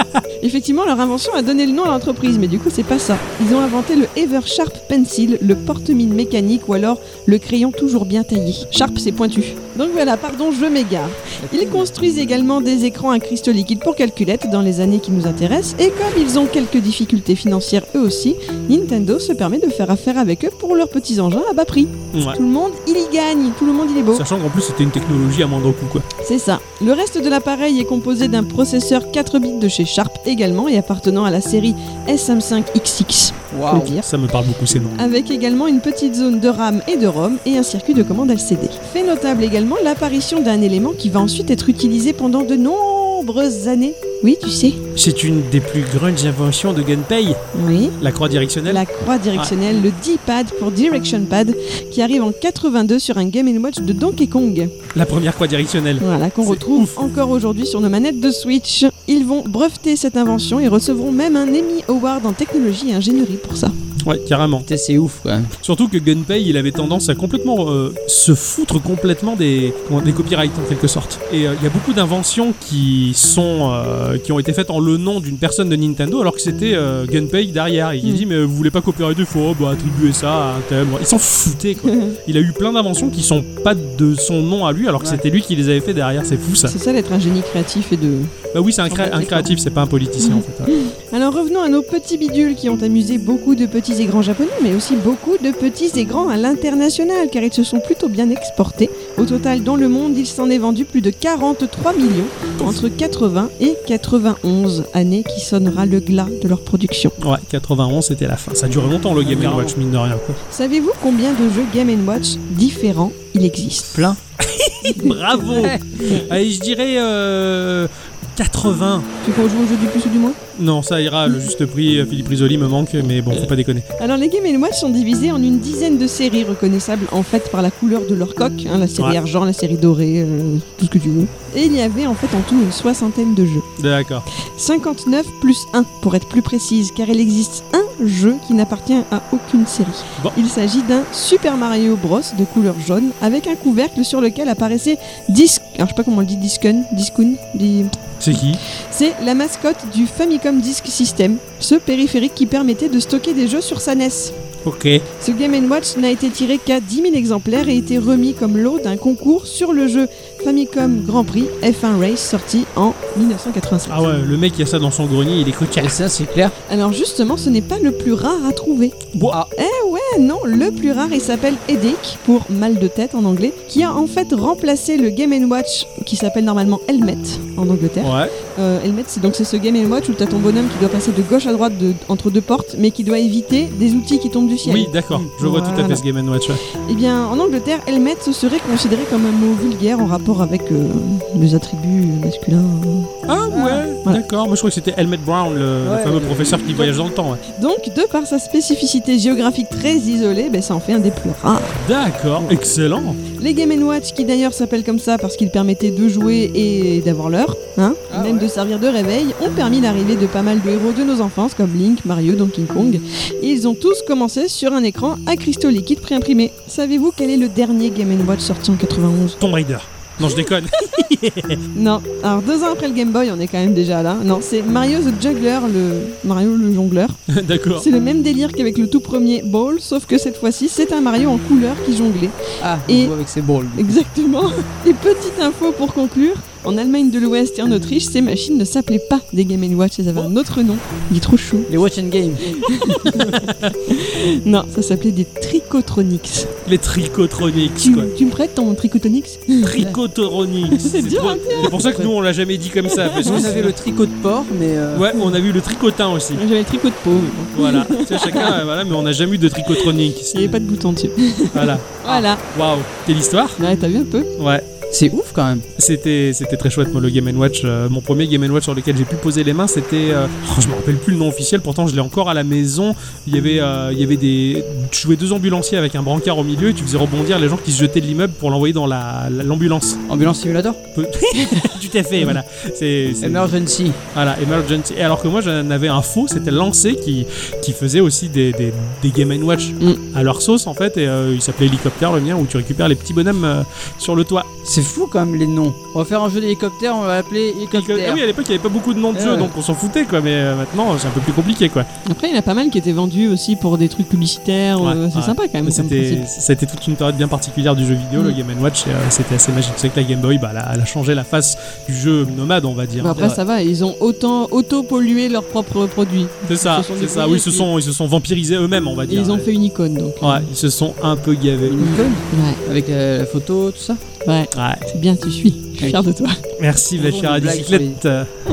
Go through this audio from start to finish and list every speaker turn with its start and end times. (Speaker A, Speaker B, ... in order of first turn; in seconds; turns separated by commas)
Speaker A: 0.4-24.2, Speaker B: 11.4-11.9, Speaker C: 22.1-22.4, Speaker C: 24.1-26.1, Speaker A: 26.2-34.0, Speaker B: 33.5-33.9, Speaker C: 34.0-35.0, Speaker A: 35.0-44.8, Speaker C: 45.0-47.4, Speaker A: 47.5-48.0, Speaker C: 48.0-48.8, Speaker A: 48.6-54.7, Speaker C: 54.9-57.0, Speaker A: 56.0-63.7, Speaker C: 64.0-64.7, Speaker B: 64.7-65.5, Speaker C: 65.6-86.7, Speaker A: 81.8-82.2, Speaker A: 86.7-88.3, Speaker C: 88.5-90.7, Speaker A: 88.9-89.5, Speaker A: 90.2-107.1, Speaker C: 107.2-110.4, Speaker B: 109.2-109.7, Speaker A: 110.5-114.0, Speaker B: 113.9-114.2, Speaker C: 114.4-119.1, Speaker A: 114.9-115.1, Speaker B: 115.0-116.2, Speaker A: 119.2-120.4, Speaker C: 120.5-123.8, Speaker A: 124.0-133.7, Speaker C: 133.8-134.2, Speaker A: 134.3-154.3, Speaker C: 148.2-148.6, Speaker C: 154.6-155.0, Speaker A: 155.2-164.0, Speaker C: 163.9-166.0, Speaker B: 165.8-166.5, Speaker A: 166.7-168.9, Speaker C: 169.1-169.4, Speaker A: 169.6-186.0, Speaker C: 178.0-178.3, Speaker C: 184.6-186.6, Speaker A: 186.8-193.1, Speaker C: 193.2-197.4, Speaker B: 193.5-193.8, Speaker B: 195.8-196.9, Speaker A: 197.6-201.8, Speaker C: 201.8-203.2, Speaker A: 202.4-202.7, Speaker A: 203.3-219.4, Speaker B: 208.1-208.5, Speaker C: 219.4-221.6, Speaker A: 220.2-221.0, Speaker A: 221.7-227.2, Speaker C: 227.3-227.9, Speaker A: 227.8-233.1, Speaker B: 232.6-234.0, Speaker A: 233.7-241.7, Speaker B: 241.7-242.6, Speaker A: 242.5-246.5, Speaker C: 243.3-243.7, Speaker C: 246.7-248.1, Speaker A: 247.8-249.8, Speaker C: 249.6-253.7, Speaker A: 250.7-252.1, Speaker A: 252.9-253.4, Speaker B: 253.2-255.1, Speaker C: 254.9-256.4, Speaker A: 256.4-258.6, Speaker C: 257.5-260.6, Speaker A: 259.7-262.4, Speaker C: 261.5-263.6, Speaker A: 263.6-264.3, Speaker C: 264.4-264.6, Speaker B: 264.9-265.6, Speaker C: 265.8-280.0, Speaker B: 280.1-280.8, Speaker C: 280.9-283.5, Speaker B: 283.2-284.0, Speaker C: 284.1-294.5, Speaker B: 294.6-298.2, Speaker C: 297.7-301.9, Speaker B: 299.1-299.5, Speaker A: 302.0-306.3, Speaker C: 304.8-313.4, Speaker A: 313.0-317.6, Speaker C: 316.5-319.5, Speaker B: 316.8-317.4, Speaker A: 319.1-320.4, Speaker C: 320.2-322.0, Speaker B: 321.6-324.0, Speaker A: 321.8-322.6, Speaker A: 324.2-326.4, Speaker C: 324.5-324.8, Speaker C: 326.6-328.3, Speaker B: 327.0-328.0